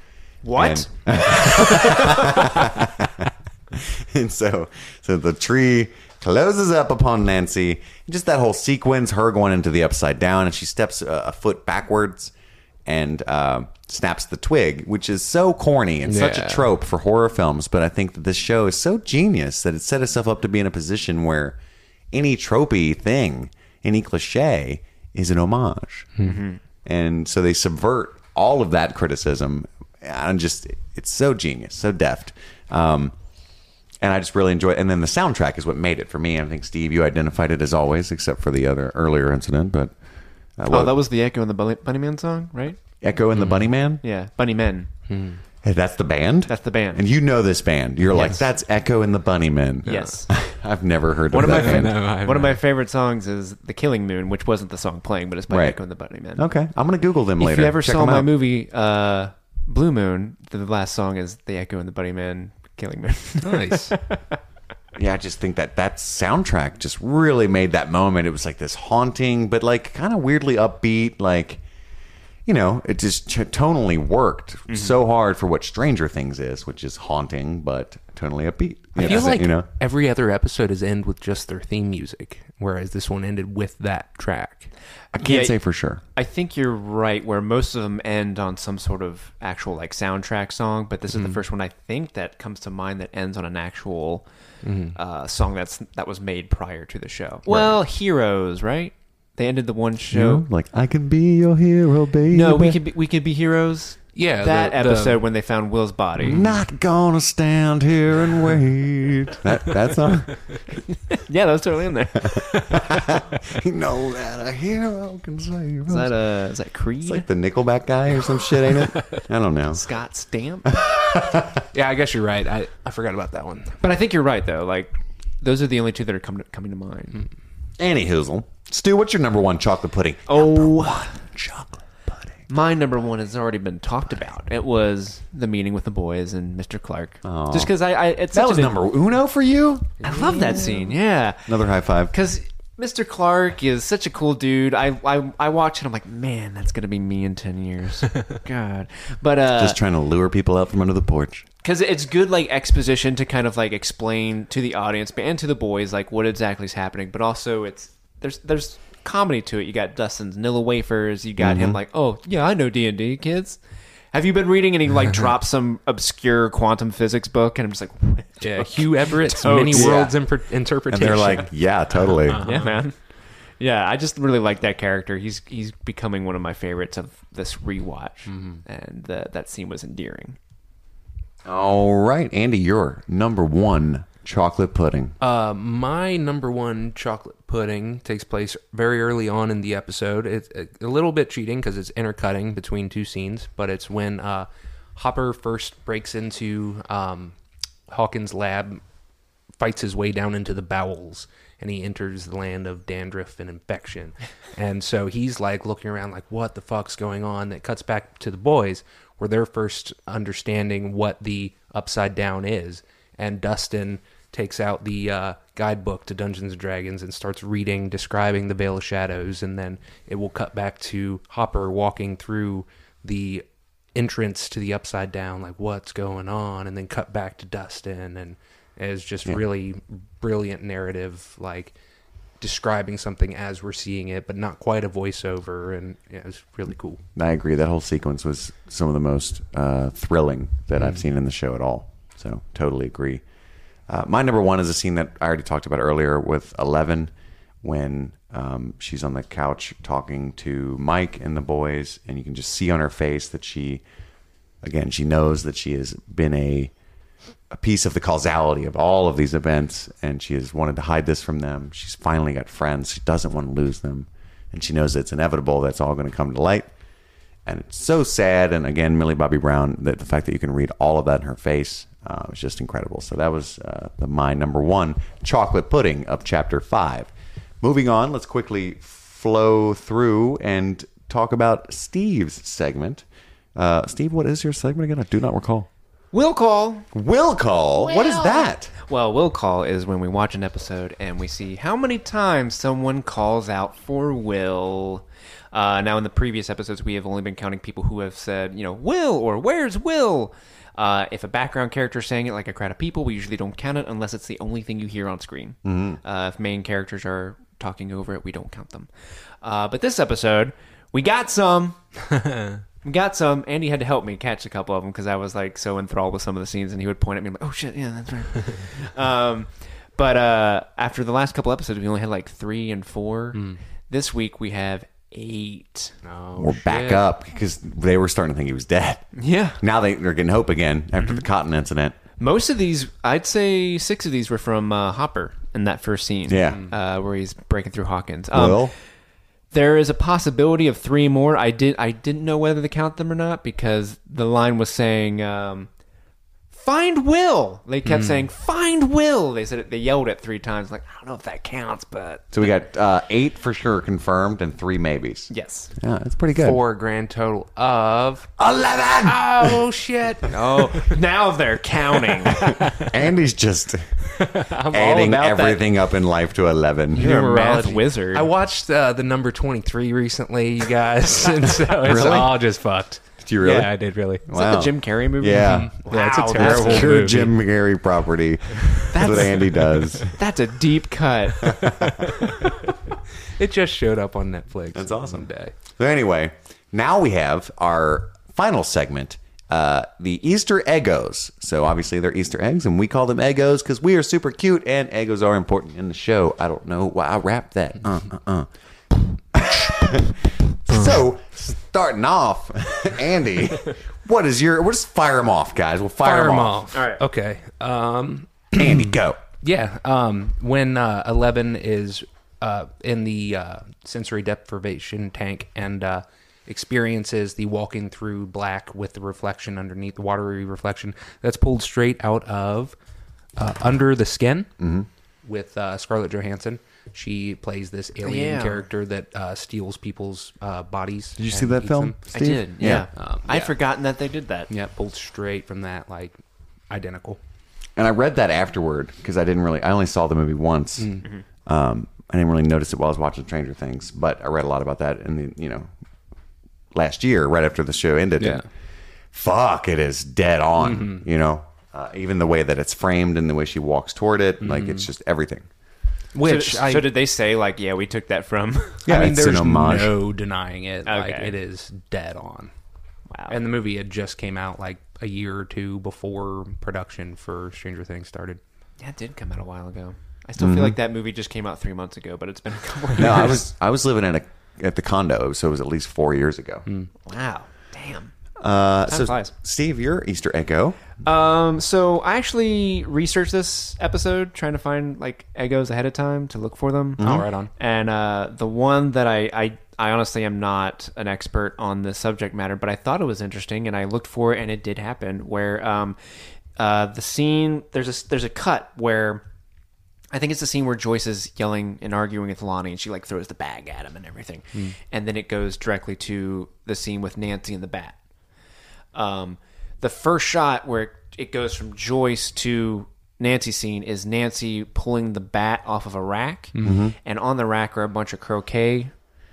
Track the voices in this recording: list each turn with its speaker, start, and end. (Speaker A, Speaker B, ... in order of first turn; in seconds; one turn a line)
Speaker A: 0.4-2.5
Speaker B: 0.5-12.3
Speaker B: 12.8-21.6
Speaker C: 16.0-16.7
Speaker B: 22.1-26.2
Speaker C: 26.1-26.4
Speaker A: 26.2-26.6
Speaker B: 26.8-33.2
Speaker B: 34.0-40.0
Speaker B: 40.5-41.0
Speaker A: 40.7-44.9
Speaker B: 43.0-44.0
Speaker C: 45.1-45.4
Speaker B: 45.6-52.1
Speaker A: 46.5-47.1
Speaker A: 48.1-48.4
Speaker C: 49.8-50.2
Speaker A: 49.9-50.4
Speaker A: 51.3-56.5
Speaker C: 51.3-52.6
Speaker B: 55.5-55.8
Speaker B: 56.3-58.3
Speaker A: 57.4-64.4
Speaker C: 63.4-64.0
Speaker B: 64.9-71.6
Speaker B: 72.5-79.7
Speaker A: 74.7-75.0
Speaker C: 79.0-84.7
Speaker B: 85.1-86.0
Speaker A: 85.2-100.4
Speaker C: 94.6-95.0
Speaker B: 97.5-97.8
Speaker B: 100.1-102.8
Speaker A: 102.3-106.6
Speaker C: 104.1-105.2
Speaker B: 106.2-110.7
Speaker A: 111.1-113.0
Speaker B: 112.3-116.2
Speaker A: 115.8-117.3
Speaker B: 117.0-119.8
Speaker A: 119.7-120.7
Speaker B: 120.7-121.6
Speaker C: 121.7-123.8
Speaker A: 123.8-127.2
Speaker B: 127.8-132.4
Speaker A: 130.3-131.2
Speaker A: 132.5-138.8
Speaker B: 137.2-137.8
Speaker B: 138.3-140.7
Speaker A: 140.0-149.8
Speaker B: 141.5-142.1
Speaker B: 149.5-151.4
Speaker A: 151.6-163.6
Speaker B: 161.4-161.8
Speaker A: 164.1-170.1
Speaker C: 168.4-172.8
Speaker B: 169.7-170.1
Speaker B: 170.9-172.5
Speaker A: 172.4-180.4
Speaker C: 178.3-178.6
Speaker B: 181.4-185.1
Speaker C: 185.2-197.3
Speaker C: 197.9-198.8
Speaker C: 199.6-231.7
Speaker C: 232.4-237.0
Speaker B: 237.1-243.2
Speaker C: 240.7-241.0
Speaker B: 243.9-253.8
Speaker B: 254.6-256.7
Speaker B: 257.5-266.7
Speaker B: 267.4-285.7
Speaker A: 286.1-286.9
Speaker B: 286.9-288.7
Speaker A: 287.8-308.9
Speaker B: 305.6-306.0
Speaker A: 309.4-311.9
Speaker C: 312.2-312.6
Speaker A: 312.8-326.0
Speaker C: 323.3-323.6
Speaker C: 326.0-327.0
Speaker B: 326.4-329.1
Speaker A: 329.1-329.6
Speaker B: 329.6-332.0
Speaker A: 332.2-338.8
Speaker B: 336.3-336.6
Speaker C: 336.4-336.7
Speaker B: 338.3-338.7
Speaker A: 339.5-345.7
Speaker A: 346.5-352.5
Speaker C: 347.8-348.2
Speaker B: 352.3-356.6
Speaker A: 355.3-355.7
Speaker C: 356.4-358.3
Speaker B: 358.4-359.7
Speaker C: 359.0-360.9
Speaker A: 360.7-362.5
Speaker C: 362.5-362.9
Speaker B: 362.7-364.1
Speaker C: 364.2-365.6
Speaker B: 364.7-367.1
Speaker C: 366.9-374.2
Speaker A: 366.9-368.3
Speaker B: 371.7-372.4
Speaker B: 373.2-380.1
Speaker A: 374.3-377.3
Speaker C: 375.4-377.3
Speaker A: 378.9-381.6
Speaker B: 381.4-382.0
Speaker C: 381.8-382.5
Speaker C: 383.4-385.5
Speaker B: 384.7-398.5
Speaker B: 399.1-406.6
Speaker C: 406.0-408.9
Speaker A: 406.7-407.0
Speaker B: 408.5-409.2
Speaker C: 409.4-422.8
Speaker C: 423.4-424.6
Speaker B: 424.6-424.9
Speaker C: 425.2-433.5
Speaker A: 428.0-428.6
Speaker B: 431.2-432.9
Speaker A: 432.1-434.5
Speaker C: 434.5-436.2
Speaker C: 436.7-437.2
Speaker B: 437.8-445.7
Speaker C: 440.8-441.1
Speaker B: 446.7-448.4
Speaker C: 448.2-448.4
Speaker B: 449.1-455.5
Speaker C: 450.6-451.1
Speaker C: 454.4-454.9
Speaker C: 456.1-456.9
Speaker A: 456.2-458.8
Speaker C: 458.8-462.5
Speaker B: 458.9-459.9
Speaker A: 460.9-461.3
Speaker A: 463.1-463.3
Speaker C: 463.3-468.4
Speaker A: 468.8-473.4
Speaker B: 470.4-470.8
Speaker B: 473.0-476.6
Speaker A: 477.1-478.1
Speaker B: 478.4-480.8
Speaker A: 478.9-479.3
Speaker A: 481.0-499.2
Speaker B: 487.0-487.2
Speaker C: 487.0-487.5
Speaker A: 500.1-508.0
Speaker A: 508.9-519.0
Speaker C: 516.5-516.8
Speaker B: 516.6-517.0